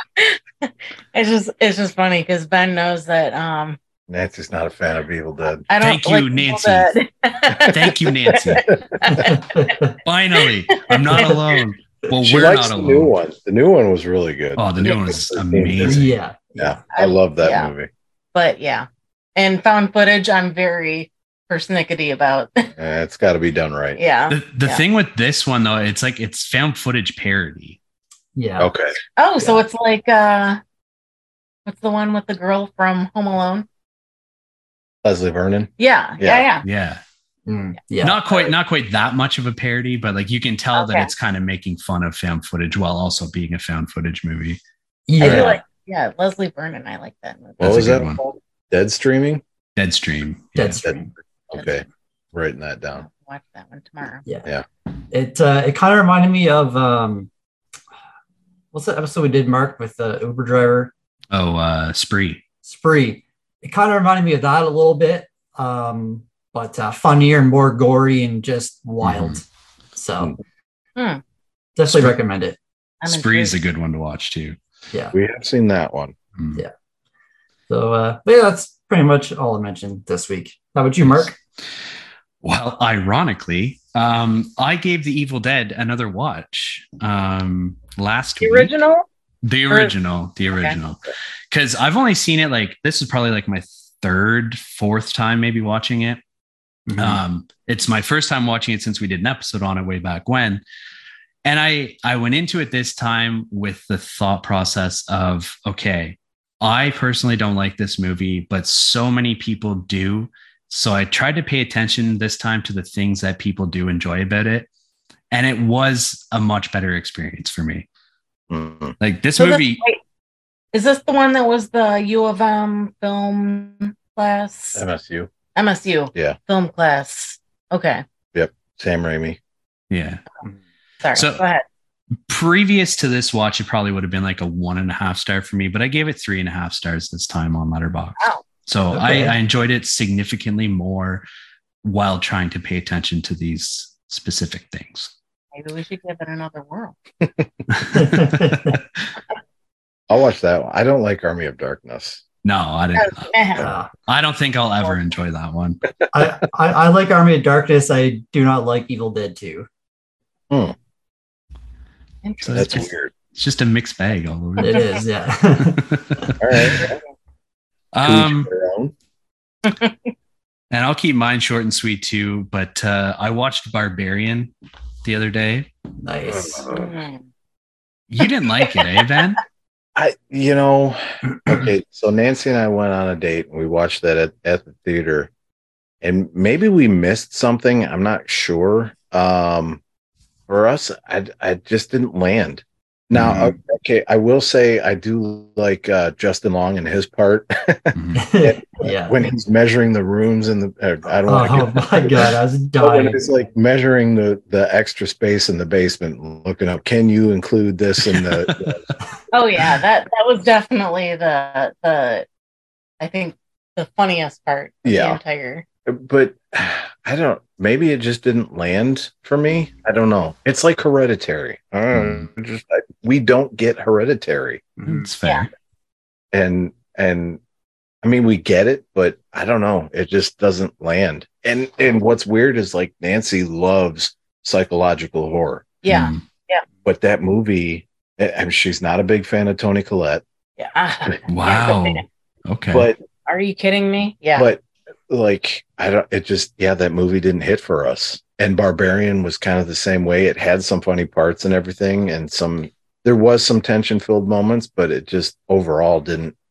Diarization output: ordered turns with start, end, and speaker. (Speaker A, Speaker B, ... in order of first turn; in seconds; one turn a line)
Speaker A: 0.2-3.8
Speaker B: 4.1-5.6
Speaker A: 5.7-9.7
Speaker C: 5.8-6.9
Speaker C: 7.5-8.7
Speaker D: 9.1-9.9
Speaker C: 10.0-13.1
Speaker A: 10.9-11.4
Speaker B: 12.2-17.9
Speaker C: 14.6-16.1
Speaker D: 15.8-16.8
Speaker A: 16.9-17.7
Speaker A: 18.3-22.7
Speaker B: 22.8-24.0
Speaker A: 23.9-24.8
Speaker C: 24.3-27.8
Speaker D: 28.3-28.7
Speaker B: 28.6-28.9
Speaker A: 29.2-30.6
Speaker A: 31.6-33.6
Speaker B: 35.0-36.5
Speaker A: 35.8-36.6
Speaker C: 36.6-37.0
Speaker D: 37.5-38.2
Speaker C: 38.0-44.6
Speaker A: 40.7-41.1
Speaker D: 45.1-45.6
Speaker A: 45.2-47.6
Speaker B: 45.2-45.5
Speaker B: 47.6-49.4
Speaker C: 47.6-48.2
Speaker C: 49.8-50.8
Speaker D: 50.5-51.1
Speaker B: 50.8-53.0
Speaker A: 53.0-54.3
Speaker D: 55.1-57.3
Speaker D: 58.7-60.9
Speaker C: 61.3-62.4
Speaker D: 62.6-70.4
Speaker C: 69.0-69.4
Speaker A: 71.0-71.2
Speaker D: 71.8-72.6
Speaker A: 73.0-73.5
Speaker C: 73.0-74.6
Speaker B: 75.1-76.1
Speaker D: 77.7-81.3
Speaker C: 81.0-81.3
Speaker C: 82.4-88.7
Speaker A: 88.4-89.0
Speaker C: 89.4-96.2
Speaker A: 90.5-90.8
Speaker D: 96.9-97.2
Speaker C: 97.0-100.6
Speaker C: 101.4-114.7
Speaker C: 115.3-117.9
Speaker B: 118.5-119.0
Speaker C: 119.0-119.8
Speaker A: 119.4-120.0
Speaker A: 120.7-124.8
Speaker B: 124.7-125.3
Speaker A: 125.5-128.0
Speaker B: 128.3-129.4
Speaker C: 129.9-130.2
Speaker A: 131.0-131.6
Speaker C: 131.1-131.4
Speaker C: 132.3-141.2
Speaker D: 138.9-139.3
Speaker C: 141.8-145.1
Speaker A: 145.5-146.9
Speaker C: 147.7-149.0
Speaker D: 147.9-148.8
Speaker B: 150.1-152.2
Speaker C: 152.4-155.8
Speaker A: 152.9-153.7
Speaker D: 153.6-153.9
Speaker D: 156.1-159.7
Speaker B: 160.5-160.7
Speaker A: 162.2-162.7
Speaker C: 162.4-165.0
Speaker B: 162.5-163.1
Speaker D: 164.6-166.3
Speaker C: 165.7-166.8
Speaker B: 166.4-167.0
Speaker C: 167.9-168.5
Speaker B: 168.0-168.9
Speaker A: 169.6-169.9
Speaker C: 170.7-174.5
Speaker C: 175.0-175.7
Speaker D: 176.0-176.6
Speaker B: 176.2-176.9
Speaker A: 176.7-177.2
Speaker C: 178.1-179.4
Speaker B: 179.9-185.3
Speaker B: 186.0-189.8
Speaker B: 190.5-208.9
Speaker C: 193.1-193.5
Speaker C: 197.9-198.2
Speaker D: 198.1-199.2
Speaker D: 201.3-203.2
Speaker A: 209.3-212.3
Speaker A: 213.0-215.6
Speaker B: 214.8-215.2
Speaker B: 215.9-224.6
Speaker C: 221.9-222.3
Speaker D: 224.8-225.1
Speaker C: 224.8-225.5
Speaker B: 226.3-227.4
Speaker B: 228.0-235.8
Speaker A: 235.8-236.6
Speaker C: 235.9-236.2
Speaker B: 236.8-240.2
Speaker A: 240.6-242.0
Speaker C: 241.3-242.9
Speaker B: 242.7-243.0
Speaker A: 243.2-244.5
Speaker B: 244.3-256.3